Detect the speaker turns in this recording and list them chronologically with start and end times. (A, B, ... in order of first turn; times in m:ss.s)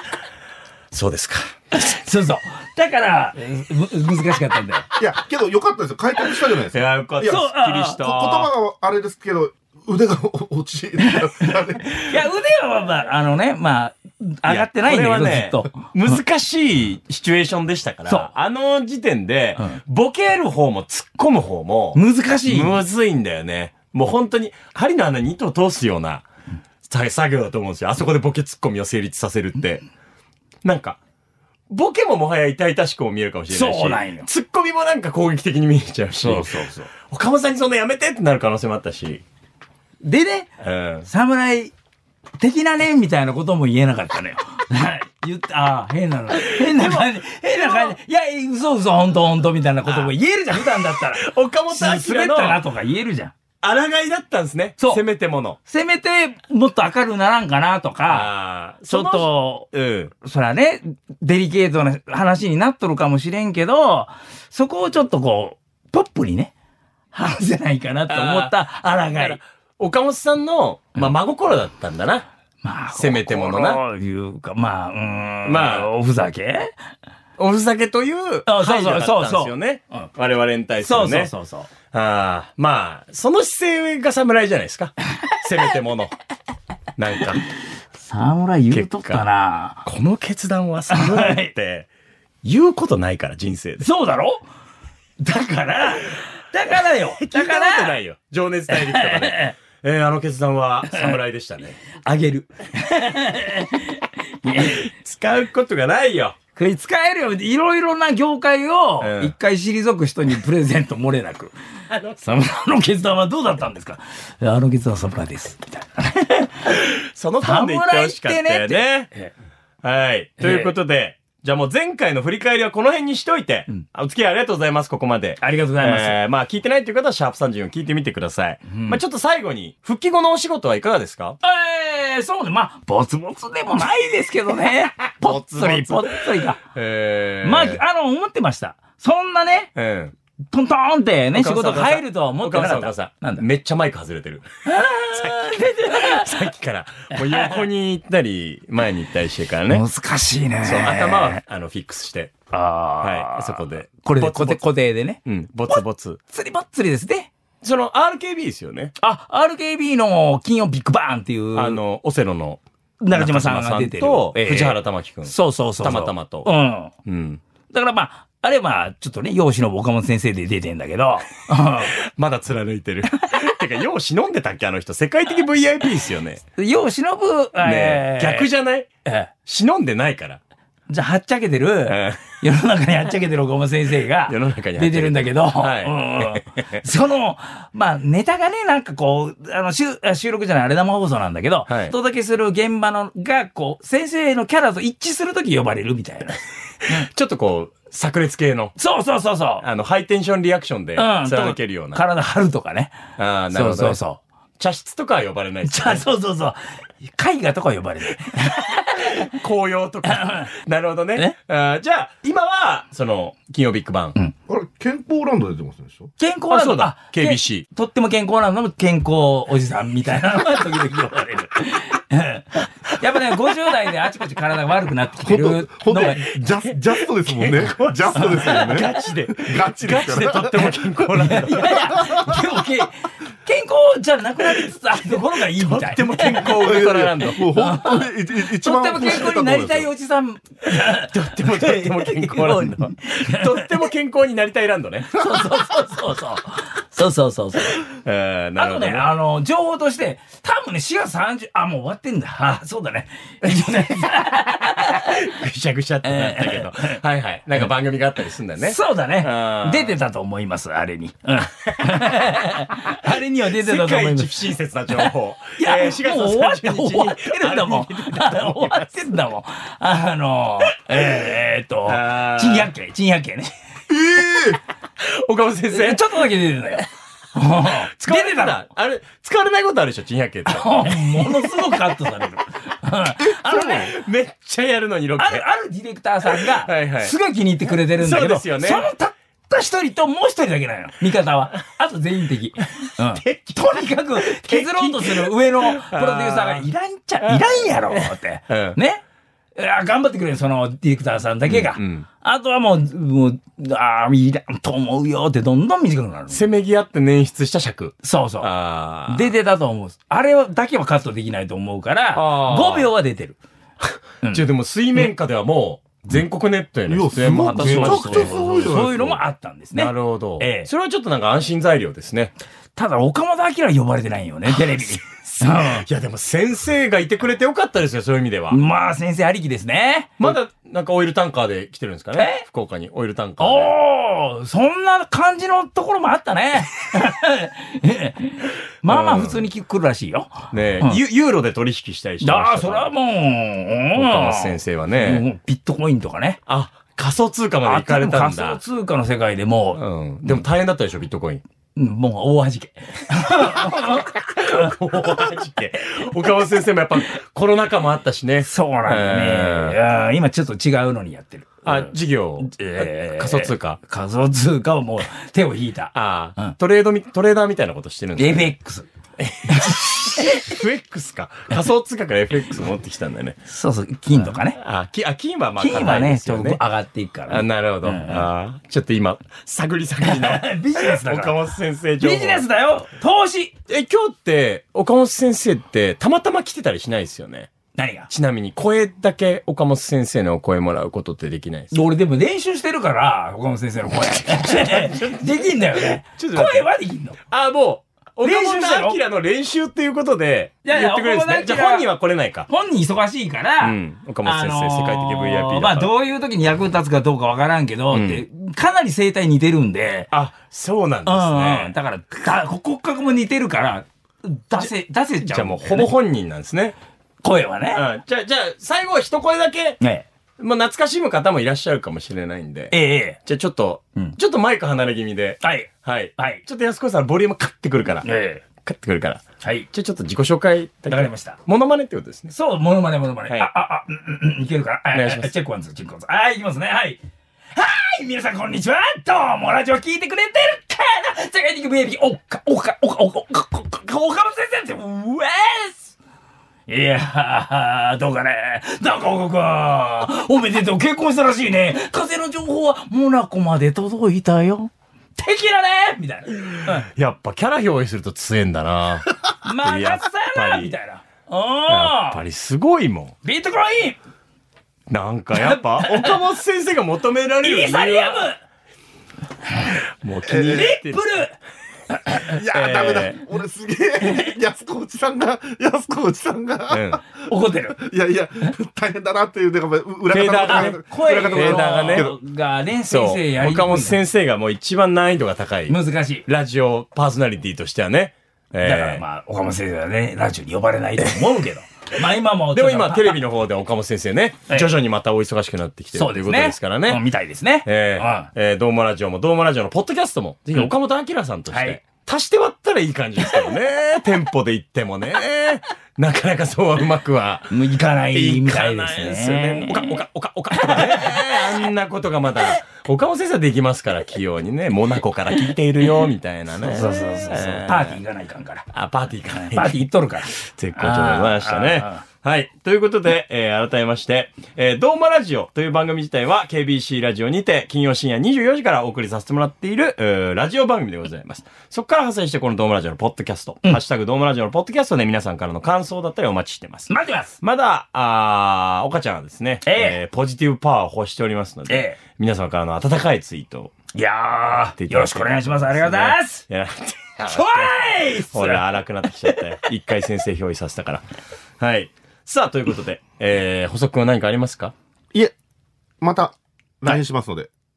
0:00.9-0:01.5 A
0:01.7-0:04.9 B
0:05.0-0:07.4 C
0:06.7-0:08.5 A
0:07.2-0:08.0 B
0:07.9-0:11.9 C
0:11.0-0:16.2 B
0:14.4-0:26.2 A
0:21.9-0:22.8 B
0:26.9-0:29.8 A
0:30.6-0:31.0 A
0:31.7-0:39.2 A
0:33.5-0:34.3 B
0:36.2-0:36.9 B
0:40.0-0:40.5 B
0:40.6-0:41.1 A
0:41.0-0:41.7 B
0:42.4-0:53.3 B
0:46.4-0:47.9 A
0:49.9-0:50.1 A
0:50.7-0:52.6 A
0:53.6-0:55.6 A
0:55.7-0:58.3 B
0:58.1-1:00.1 A
0:58.9-0:59.7 B
1:00.2-1:06.5 B
1:07.1-1:09.4 B
1:08.1-1:08.5 A
1:09.1-1:12.3 A
1:12.6-1:16.7 B
1:12.9-1:13.8 A
1:15.4-1:15.9 A
1:17.4-1:21.3 A
1:18.5-1:20.1 B
1:20.8-1:21.7 B
1:21.9-1:26.1 A
1:27.0-1:27.4 A
1:28.0-1:29.8 B
1:28.7-1:29.2 A
1:29.8-1:31.9 A
1:30.9-1:31.5 B
1:32.4-1:33.9 A
1:33.8-1:34.4 B
1:35.2-1:38.0 B
1:37.2-1:41.8 A
1:38.7-1:39.5 B
1:40.9-1:41.2 B
1:41.9-1:44.9 B
1:44.7-1:46.4 A
1:46.6-1:51.5 B
1:49.0-1:49.3 A
1:51.9-1:52.2 A
1:52.2-1:56.8 B
1:56.7-1:59.1 A
1:57.4-1:59.3 B
1:59.8-2:11.4 A
2:00.4-2:00.7 B
2:05.4-2:06.2 B
2:08.7-2:09.0 B
2:11.4-2:16.6 B
2:15.2-2:17.8 A
2:17.4-2:19.7 B
2:19.8-2:20.1 A
2:20.5-2:23.4 B
2:21.3-2:29.8 A
2:24.6-2:26.3 B
2:27.1-2:27.6 B
2:29.7-2:31.4 B
2:30.6-2:32.3 A
2:32.5-2:37.3 B
2:33.0-2:34.6 A
2:35.2-2:36.2 A
2:37.6-2:38.9 A
2:39.0-2:41.8 B
2:41.5-2:42.6 A
2:43.0-2:46.9 B
2:43.1-2:46.5 A
2:47.0-2:47.4 A
2:47.7-2:51.9 B
2:52.1-2:56.4 A
2:56.6-2:58.5 B
2:57.6-2:58.9 A
2:59.4-3:00.4 A
3:00.9-3:17.1 B
3:01.9-3:02.4 A
3:04.3-3:06.8 A
3:11.7-3:11.9 A
3:16.9-3:18.7 A
3:18.8-3:19.6 B
3:19.6-3:22.0 A
3:21.0-3:23.0 B
3:23.2-3:24.0 A
3:23.5-3:24.2 B
3:24.6-3:26.0 A
3:25.6-3:29.3 B
3:29.0-3:34.2 A
3:30.1-3:30.5 B
3:34.5-3:36.1 C
3:36.2-3:46.3 B
3:36.5-3:37.6 A
3:45.2-3:50.8 C
3:46.8-3:52.2 A
3:48.2-3:49.0 B
3:51.2-3:56.8 B
3:54.9-3:57.4 A
3:56.5-3:59.9 C
3:57.5-4:03.9 B
4:00.8-4:05.2 A
4:05.1-4:07.8 B
4:07.9-4:09.1 A
4:08.6-4:15.2 B
4:14.8-4:19.9 A
4:16.0-4:17.0 B
4:18.6-4:33.5 B
4:21.8-4:22.2 A
4:23.0-4:28.9 A
4:31.8-4:32.7 A
4:33.9-4:34.6 C
4:35.0-4:36.2 A
4:35.7-4:38.6 B
4:37.6-4:41.8 A
4:40.5-4:43.9 B
4:43.4-4:45.4 A
4:45.2-4:59.0 B
4:46.3-4:47.1 A
4:47.9-4:48.9 A
4:52.9-4:56.6 A
4:57.2-4:58.8 A
4:59.6-5:06.4 B
5:01.5-5:02.0 A
5:06.3-5:09.3 A
5:08.0-5:08.5 B
5:09.1-5:13.4 B
5:12.1-5:12.9 A
5:13.8-5:18.9 A
5:16.9-5:19.2 C
5:17.2-5:20.7 B
5:19.7-5:22.3 A
5:22.8-5:25.8 B
5:24.6-5:28.6 A
5:28.5-5:30.2 B
5:30.2-5:33.7 A
5:32.2-5:32.4 B
5:33.4-5:41.0 B
5:38.8-5:39.5 A
5:40.5-5:42.9 A
5:42.2-5:46.4 B
5:43.9-5:45.2 A
5:46.5-5:48.6 A
5:47.6-5:50.4 B
5:49.7-5:51.4 A
5:51.8-5:54.7 B
5:54.3-5:59.8 A
5:58.4-6:06.6 B
6:01.6-6:03.8 A
6:05.9-6:08.5 A
6:08.2-6:08.9 B
6:09.2-6:13.4 A
6:09.5-6:10.4 B
6:13.4-6:14.6 B
6:14.2-6:16.6 A
6:15.6-6:18.2 B
6:17.3-6:22.4 A
6:20.0-6:21.4 B
6:22.0-6:23.5 B
6:23.7-6:27.5 A
6:27.8-6:28.1 B
6:28.1-6:31.7 A
6:31.7-6:37.2 B
6:34.2-6:36.7 A
6:37.3-6:42.5 A
6:38.2-6:39.0 B
6:40.6-6:41.9 B
6:42.5-6:50.1 B
6:43.6-6:45.9 A
6:47.9-6:48.2 A
6:50.1-6:51.7 A
6:51.0-6:55.9 B
6:55.2-6:56.8 A
6:57.2-6:57.8 B
6:57.7-6:59.8 A
6:59.8-7:00.0 B
7:00.4-7:08.1 A
7:02.7-7:03.2 B
7:05.4-7:06.4 B
7:08.0-7:08.4 B
7:08.6-7:12.3 A
7:09.4-7:09.7 B
7:10.9-7:11.4 B
7:12.3-7:17.0 B
7:14.9-7:15.3 A
7:17.5-7:25.9 B
7:26.7-7:36.9 B
7:36.6-7:39.1 A
7:39.3-7:42.2 B
7:39.6-7:40.8 A
7:41.7-7:43.1 A
7:43.2-7:44.0 B
7:44.9-7:48.3 A
7:45.3-7:46.2 B
7:47.4-7:48.4 B
7:50.0-7:51.2 A
7:50.3-7:51.3 B
7:50.3-7:50.7 C
7:51.9-7:52.2 B
7:52.3-7:57.0 C
7:52.3-7:53.2 A
7:56.7-7:57.0 A
7:57.3-7:57.8 B
7:57.8-8:02.2 C
8:00.1-8:02.2 A
8:00.5-8:04.0 B
8:02.9-8:09.0 A
8:05.7-8:06.2 B
8:08.6-8:13.2 B
8:12.5-8:17.0 A
8:15.9-8:18.3 B
8:17.6-8:27.6 A
8:21.5-8:21.8 B
8:27.5-8:30.0 B
8:28.1-8:38.0 A
8:30.5-8:31.4 B
8:36.6-8:38.6 B
8:38.7-8:56.9 A
8:39.3-8:42.0 B
8:56.9-8:57.4 B
8:57.4-9:03.7 A
8:59.6-9:00.0 B
9:01.7-9:02.0 B
9:03.9-9:06.4 B
9:04.8-9:11.0 A
9:07.2-9:08.7 B
9:11.6-9:14.7 A
9:16.0-9:17.5 C